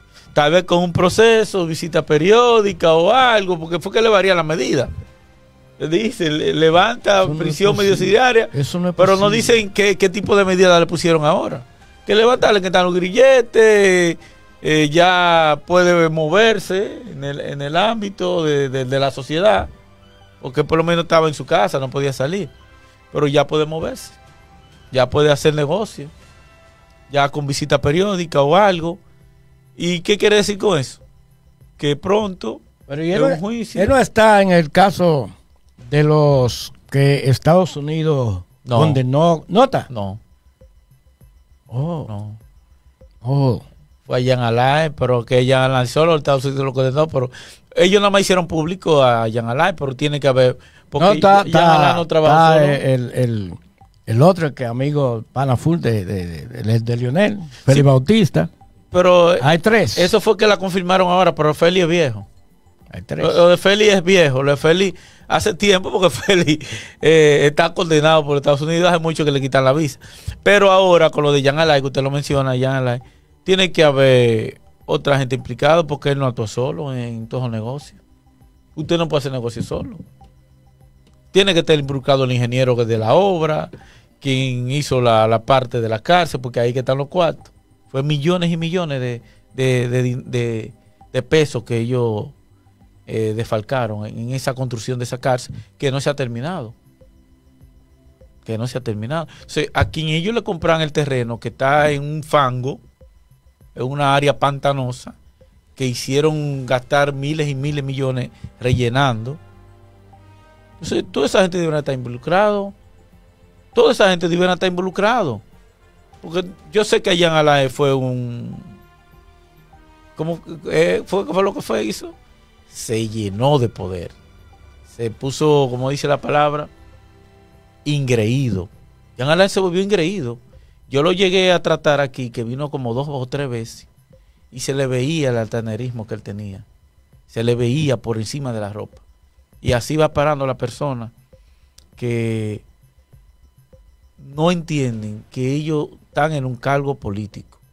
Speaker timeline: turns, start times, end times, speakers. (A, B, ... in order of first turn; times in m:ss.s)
0:00.3-0:04.9 A
0:05.8-0:19.7 A
0:07.2-0:09.6 B
0:20.4-0:22.5 A
0:23.1-0:24.2 A
0:24.9-0:26.1 A
0:27.1-0:29.0 A
0:29.8-0:31.0 A
0:31.8-0:33.9 A
0:32.9-0:39.9 B
0:38.6-0:39.0 A
0:39.9-0:40.2 A
0:41.7-0:42.1 B
0:42.1-0:42.4 A
0:43.2-0:43.6 B
0:44.1-0:52.8 A
0:51.0-0:58.5 B
0:58.9-1:02.3 A
0:59.4-1:00.1 B
1:02.9-1:03.4 B
1:03.2-1:18.0 A
1:18.8-1:20.0 A
1:21.3-1:32.3 A
1:33.1-1:36.7 A
1:38.4-1:42.8 A
1:43.8-1:45.1 A
1:45.8-1:49.4 A
1:50.8-1:52.8 A
1:53.8-1:55.4 A
1:56.2-1:58.7 A
2:00.2-2:02.2 A
2:02.7-2:04.2 A
2:04.9-2:06.7 A
2:07.8-2:13.9 A
2:14.5-2:16.6 A
2:17.3-2:19.0 A
2:19.6-2:21.1 A
2:22.0-2:22.6 A
2:24.2-2:27.6 A